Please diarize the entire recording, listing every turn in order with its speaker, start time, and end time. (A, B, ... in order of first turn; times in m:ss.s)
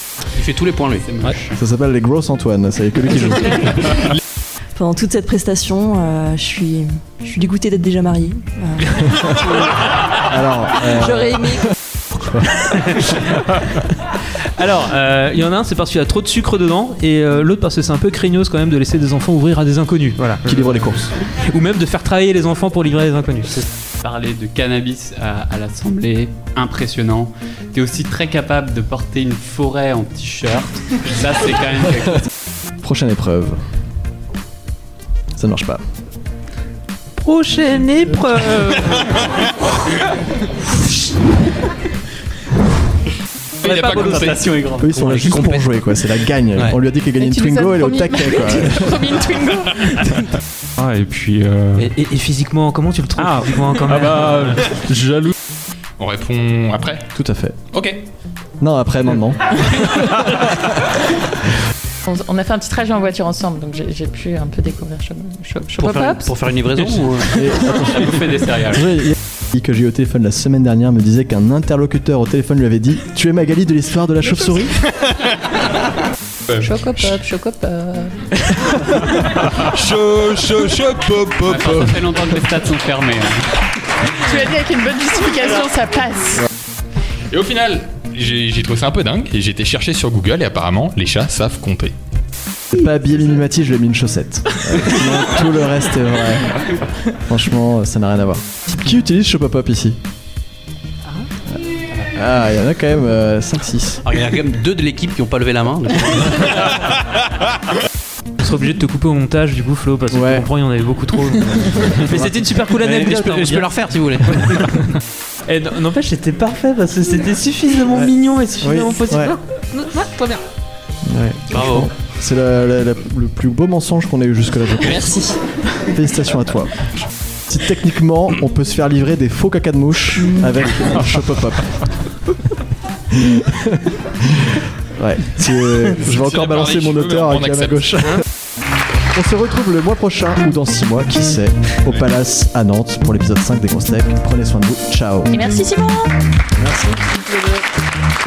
0:00.3-0:01.1 A
0:00.9-0:01.5 B
0:01.5-0:03.9 C
0:04.8-0:09.0 D
0:10.2-0:11.6 C
0:12.1-0:12.5 C
0:12.6-0:13.2 E
0:14.6-0:20.7 E
0:20.4-0:21.1 C
0:21.3-0:23.6 E
0:24.0-0:32.3 B
0:32.8-0:33.6 C
0:35.4-0:35.8 C
0:37.2-0:39.3 E
0:43.6-0:44.4 F
0:43.6-0:44.5 E
0:44.8-0:49.0 C
0:47.2-0:50.2 G
0:50.8-0:51.9 H
0:51.8-0:54.7 E
0:53.2-0:55.3 H
0:56.0-0:57.0 F
0:57.1-0:57.6 C
0:57.7-0:58.0 F
0:58.6-1:00.7 C
1:02.0-1:06.3 G
1:05.7-1:07.4 A
1:07.3-1:08.2 C
1:07.6-1:09.0 B
1:08.7-1:14.8 C
1:16.5-1:19.1 G
1:19.4-1:22.0 F
1:21.4-1:23.4 B
1:24.0-1:26.5 G
1:27.3-1:31.9 F
1:32.7-1:36.6 C
1:37.1-1:40.0 C
1:42.1-1:44.0 C
1:44.0-1:46.7 A
1:48.4-1:54.7 E
1:50.1-1:50.5 C
1:52.8-1:54.8 A
1:55.5-2:00.4 E
1:58.6-1:59.3 C
2:01.0-2:05.2 C
2:01.5-2:01.9 A
2:05.8-2:06.8 C
2:07.5-2:11.9 C
2:13.1-2:18.2 C
2:16.0-2:17.8 F
2:19.1-2:25.3 C
2:25.3-2:26.2 G
2:26.6-2:27.0 C